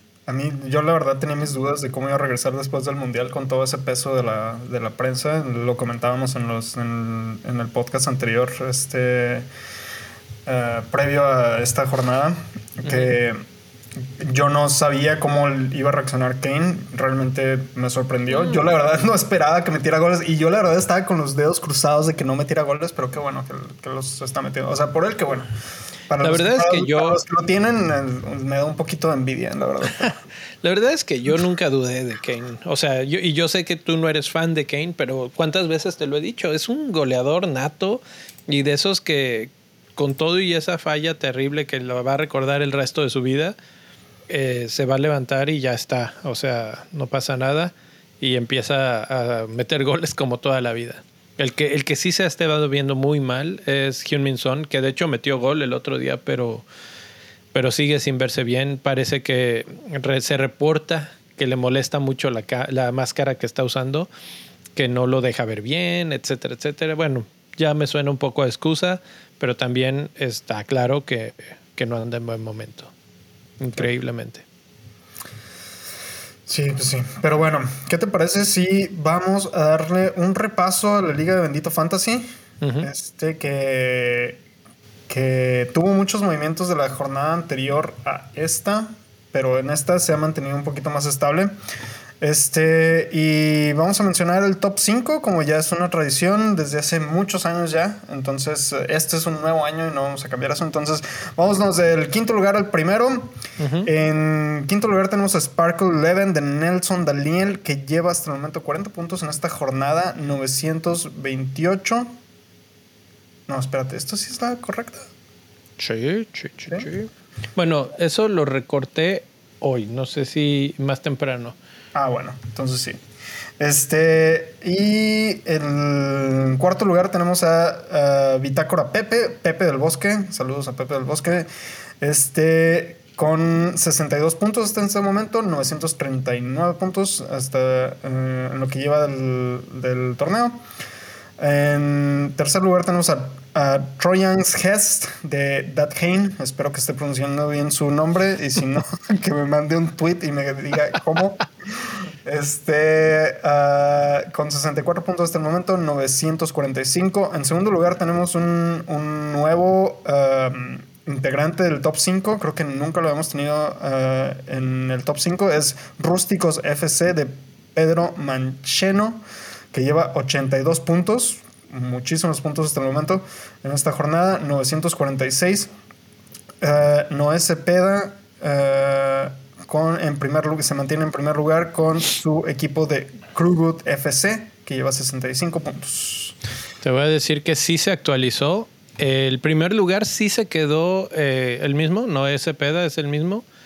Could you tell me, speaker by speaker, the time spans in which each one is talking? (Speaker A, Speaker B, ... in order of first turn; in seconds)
Speaker A: 0.3-9.5, 10.5-13.4, 14.0-25.5, 26.1-30.2, 76.5-82.3, 82.8-84.4, 85.1-91.5, 92.2-112.1, 113.5-115.1, 122.0-123.0, 123.6-131.5, 132.0-140.6, 141.4-175.7, 176.6-186.4
Speaker B: 12.8-13.1, 26.2-27.2, 30.0-43.6, 44.3-56.7, 57.5-64.1, 64.8-72.9, 73.6-74.5, 82.6-82.9, 103.6-103.9, 115.8-121.6, 186.8-193.4